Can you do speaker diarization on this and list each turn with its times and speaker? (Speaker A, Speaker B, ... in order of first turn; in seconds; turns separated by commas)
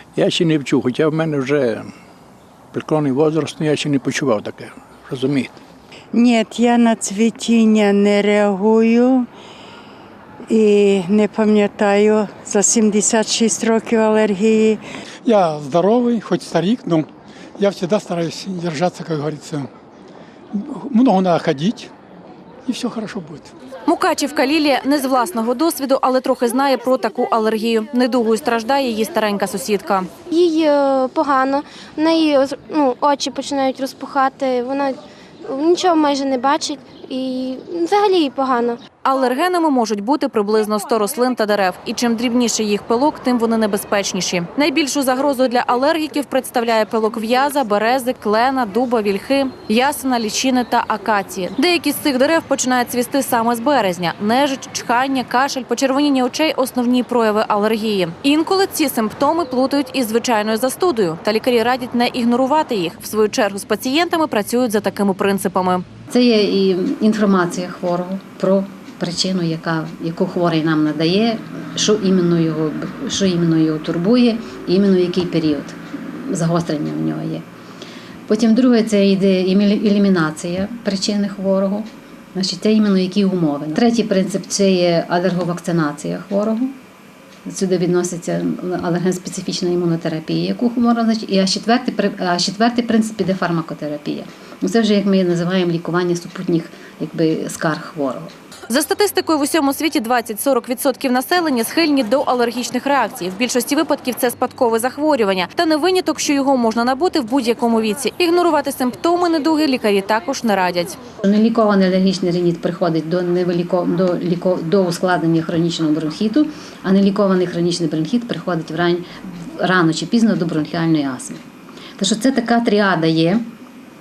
Speaker A: 0.1-1.9, Speaker A: 2.7-5.6, Speaker B: 6.1-9.3, Speaker B: 10.5-14.8, Speaker C: 15.2-17.1, Speaker C: 17.6-19.7, Speaker C: 20.5-21.9, Speaker C: 22.7-23.5, Speaker D: 23.9-30.1, Speaker E: 30.3-38.8, Speaker D: 39.0-65.8, Speaker F: 66.1-77.4, Speaker F: 78.3-86.7, Speaker F: 87.5-98.3, Speaker D: 98.7-111.0, Speaker F: 111.2-119.0, Speaker F: 119.6-121.4, Speaker F: 122.0-123.4